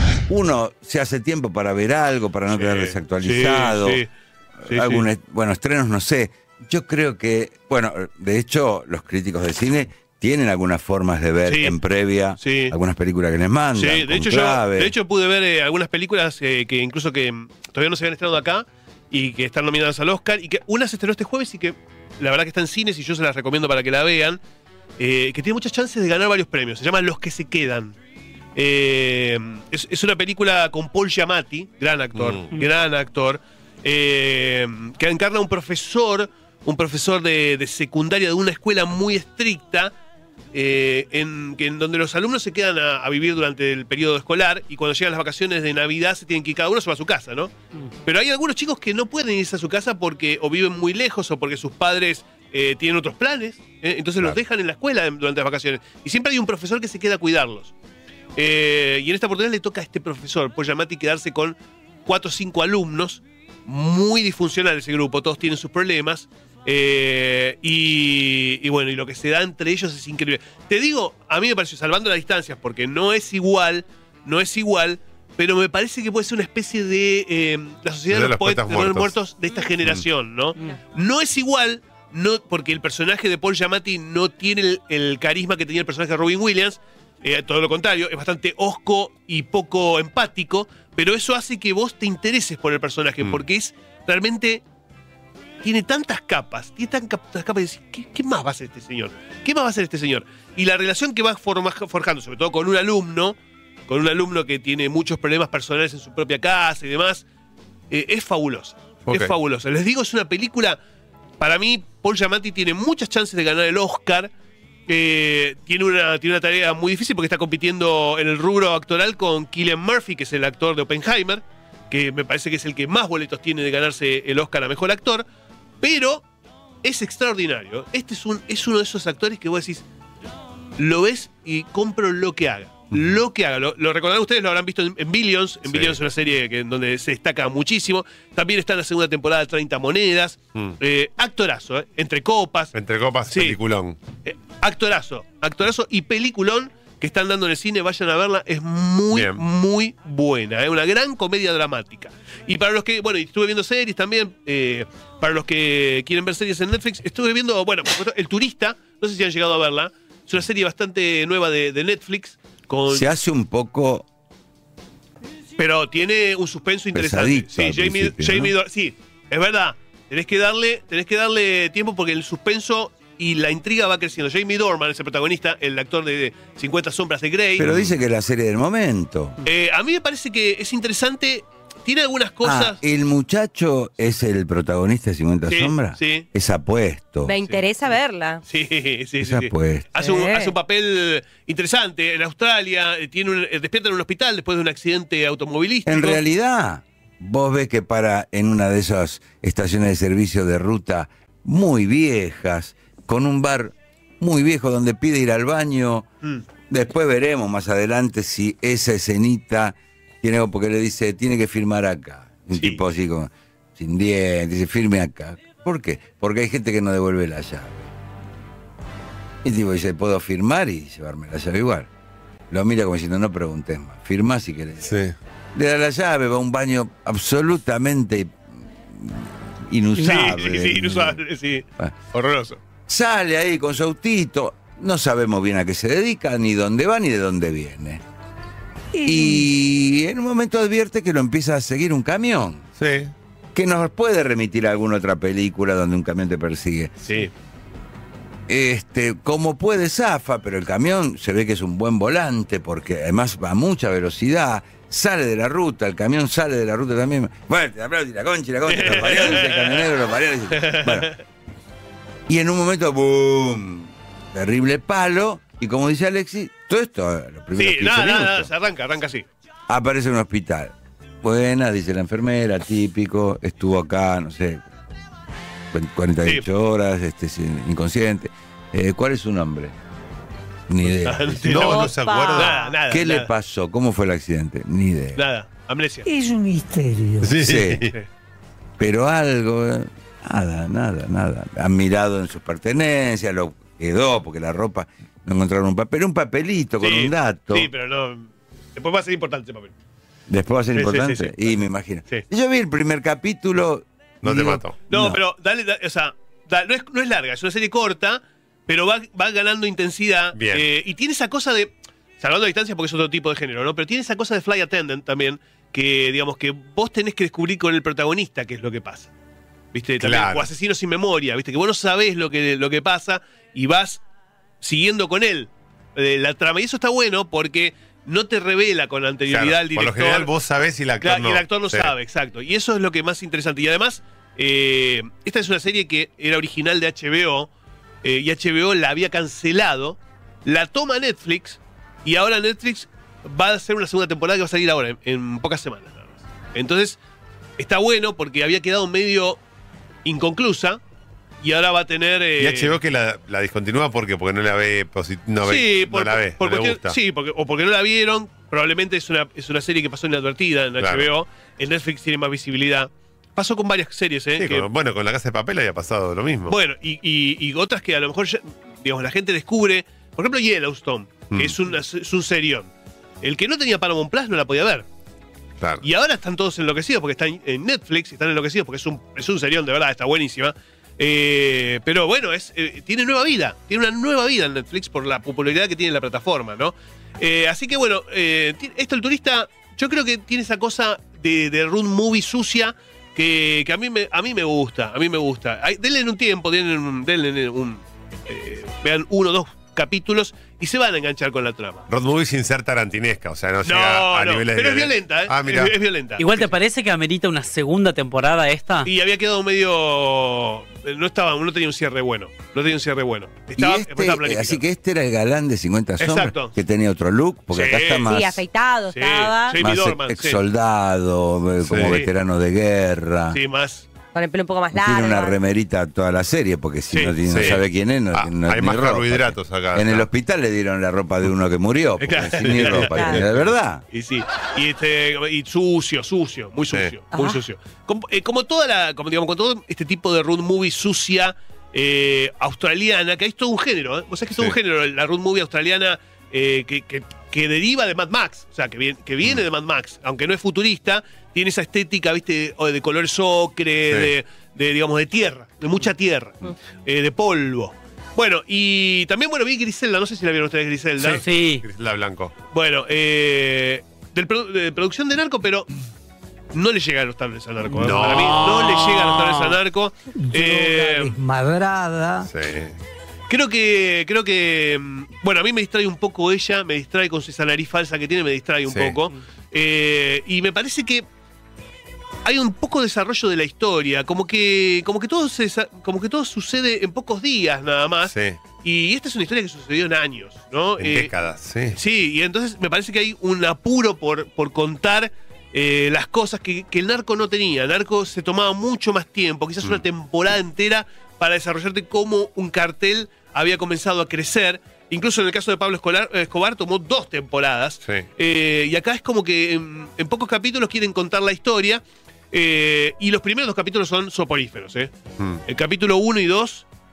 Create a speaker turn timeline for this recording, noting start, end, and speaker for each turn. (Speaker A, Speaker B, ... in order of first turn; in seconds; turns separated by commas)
Speaker A: 0.3-4.0, Speaker B: 2.5-4.1, Speaker A: 4.6-14.9, Speaker B: 4.7-5.1, Speaker B: 11.4-11.8, Speaker B: 12.4-12.8, Speaker B: 13.7-24.4, Speaker B: 25.0-28.0, Speaker B: 28.6-39.9, Speaker C: 32.1-32.5, Speaker B: 40.5-57.7, Speaker B: 58.4-94.7, Speaker C: 78.1-79.1, Speaker B: 95.6-107.2, Speaker B: 107.9-110.8, Speaker C: 109.1-109.3, Speaker B: 111.4-114.3, Speaker B: 114.9-125.2, Speaker B: 125.8-126.3, Speaker B: 126.8-129.9, Speaker B: 130.8-143.6, Speaker C: 135.7-136.0, Speaker C: 142.7-144.0, Speaker B: 144.2-163.1, Speaker C: 149.1-149.4, Speaker A: 162.9-164.1, Speaker B: 165.6-177.9, Speaker A: 166.9-168.6, Speaker A: 177.6-179.4, Speaker B: 179.4-182.8, Speaker A: 182.4-187.3, Speaker B: 185.5-186.3, Speaker D: 187.2-188.4, Speaker B: 187.4-196.2, Speaker A: 189.2-189.9, Speaker D: 189.9-190.6, Speaker A: 195.9-206.1, Speaker A: 206.7-217.9, Speaker B: 212.5-212.8, Speaker A: 219.4-221.9, Speaker A: 222.5-225.0, Speaker C: 224.8-225.2, Speaker A: 225.6-231.2, Speaker B: 229.9-232.6, Speaker A: 232.9-238.0, Speaker E: 239.0-239.4, Speaker A: 239.0-242.6, Speaker C: 242.8-243.1, Speaker A: 243.5-246.9, Speaker B: 247.0-247.3, Speaker A: 248.5-261.1, Speaker B: 258.7-259.9, Speaker B: 260.5-261.2, Speaker A: 262.3-268.5, Speaker B: 267.6-269.3, Speaker A: 269.7-274.6, Speaker A: 275.7-279.7, Speaker A: 280.7-281.9, Speaker B: 281.0-283.3, Speaker C: 281.5-282.6, Speaker D: 281.6-282.8, Speaker A: 282.9-285.2, Speaker B: 285.1-286.1, Speaker E: 286.1-287.3, Speaker C: 287.2-287.9, Speaker A: 287.4-287.9, Speaker A: 288.8-297.7, Speaker B: 296.8-299.7, Speaker A: 300.3-305.2, Speaker B: 300.7-302.2, Speaker C: 304.2-304.8, Speaker B: 304.3-319.1, Speaker C: 310.4-310.6, Speaker B: 319.7-324.0, Speaker C: 320.0-320.5, Speaker B: 324.6-330.3, Speaker C: 329.3-331.9, Speaker B: 331.0-337.5, Speaker B: 338.0-347.0, Speaker B: 347.6-349.4, Speaker B: 350.1-350.8, Speaker B: 351.4-352.8, Speaker C: 352.4-357.0, Speaker B: 355.4-364.7, Speaker C: 360.8-361.1, Speaker C: 364.4-366.6, Speaker B: 366.4-372.7, Speaker B: 373.2-374.9, Speaker B: 375.8-401.9, Speaker C: 401.9-405.7, Speaker B: 403.6-406.4, Speaker F: 406.2-408.9, Speaker B: 408.8-414.6, Speaker A: 413.6-418.4, Speaker B: 416.0-416.5, Speaker B: 417.5-418.2, Speaker D: 418.1-419.6, Speaker B: 418.9-420.4, Speaker A: 419.6-423.4, Speaker C: 421.7-422.0, Speaker B: 421.7-422.1, Speaker B: 423.3-423.9, Speaker D: 424.1-425.4, Speaker A: 424.8-433.8, Speaker C: 427.3-430.1, Speaker B: 432.0-461.2, Speaker D: 432.7-433.2, Speaker D: 437.1-437.4, Speaker C: 453.9-454.1, Speaker C: 461.0-462.3, Speaker F: 461.2-461.6, Speaker B: 462.5-465.7, Speaker B: 466.5-471.2, Speaker C: 467.8-469.5, Speaker E: 470.3-472.3, Speaker C: 472.3-472.8, Speaker B: 473.3-481.1, Speaker C: 478.7-479.0, Speaker B: 482.2-491.1, Speaker C: 488.1-488.4, Speaker C: 490.8-491.8, Speaker B: 491.7-514.9, Speaker B: 515.5-516.7